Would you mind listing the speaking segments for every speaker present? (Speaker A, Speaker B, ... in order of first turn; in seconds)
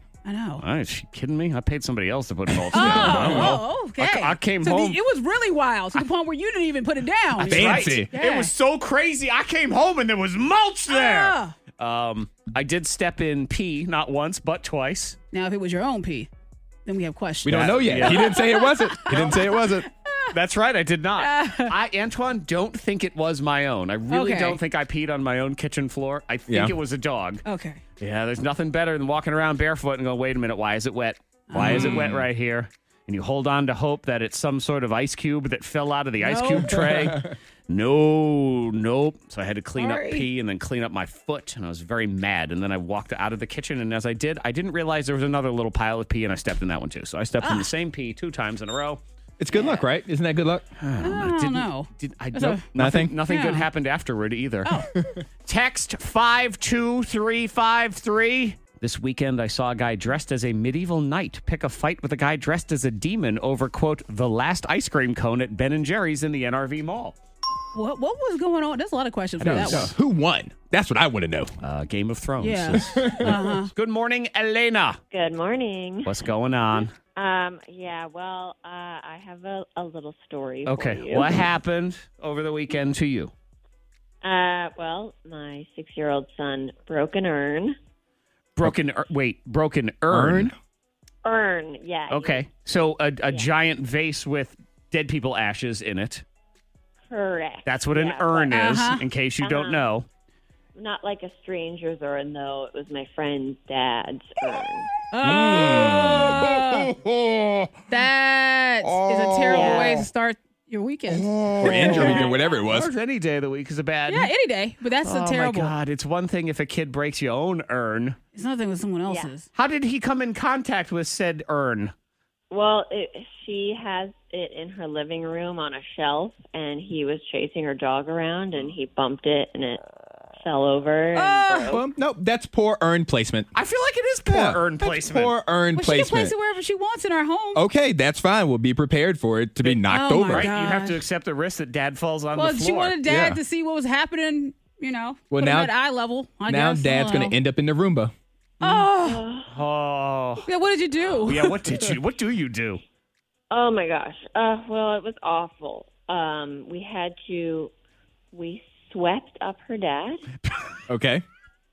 Speaker A: 0.2-0.7, 2.7-8.5, 10.9-11.6, 15.3-16.3, 16.9-20.2, 21.2-21.8, 24.1-24.6, 27.4-27.8, 31.5-32.1, 36.2-37.0, 39.8-40.3, 47.4-47.7, 51.0-52.7, 53.3-53.7, 54.6-55.0, 67.7-69.9, 72.4-73.7, 98.5-99.1, 105.1-107.0, 107.9-112.4, 114.1-115.8, 118.3-119.5, 131.1-131.8, 135.8-137.7, 139.9-141.0, 142.3-147.4, 148.6-149.2, 150.4-151.7
Speaker B: 0.6-5.0, 7.4-15.2, 17.5-18.4, 19.1-19.4, 20.3-27.4, 28.0-49.0, 49.5-49.9, 50.8-54.7, 55.5-67.2, 69.4-69.9, 71.6-75.0, 76.0-76.9, 80.7-83.3, 88.6-90.5, 92.1-96.2, 97.7-100.1, 111.1-114.3, 115.0-118.2, 119.5-121.9, 133.5-135.3, 139.6-143.0, 148.6-148.9, 149.5-150.5, 151.0-152.8
Speaker C: 2.6-3.5, 7.4-8.1, 17.4-19.9, 26.5-26.8, 31.6-32.3, 36.6-37.3, 49.4-50.6, 52.8-53.2, 54.9-55.2, 69.4-71.5, 72.8-73.4, 90.1-90.5, 105.2-107.9, 108.8-110.0, 111.4-112.9, 131.7-133.5, 134.3-136.3, 137.5-140.5, 143.0-143.4, 145.3-145.7, 146.5-148.1, 160.9-161.2
Speaker D: 75.1-76.1, 77.2-81.5, 84.2-87.8, 91.2-92.5, 97.1-98.6, 99.4-99.9, 100.8-104.9, 109.5-110.1, 119.1-119.3, 122.5-129.8, 130.4-131.8, 149.0-149.5, 153.5-157.7, 158.3-160.3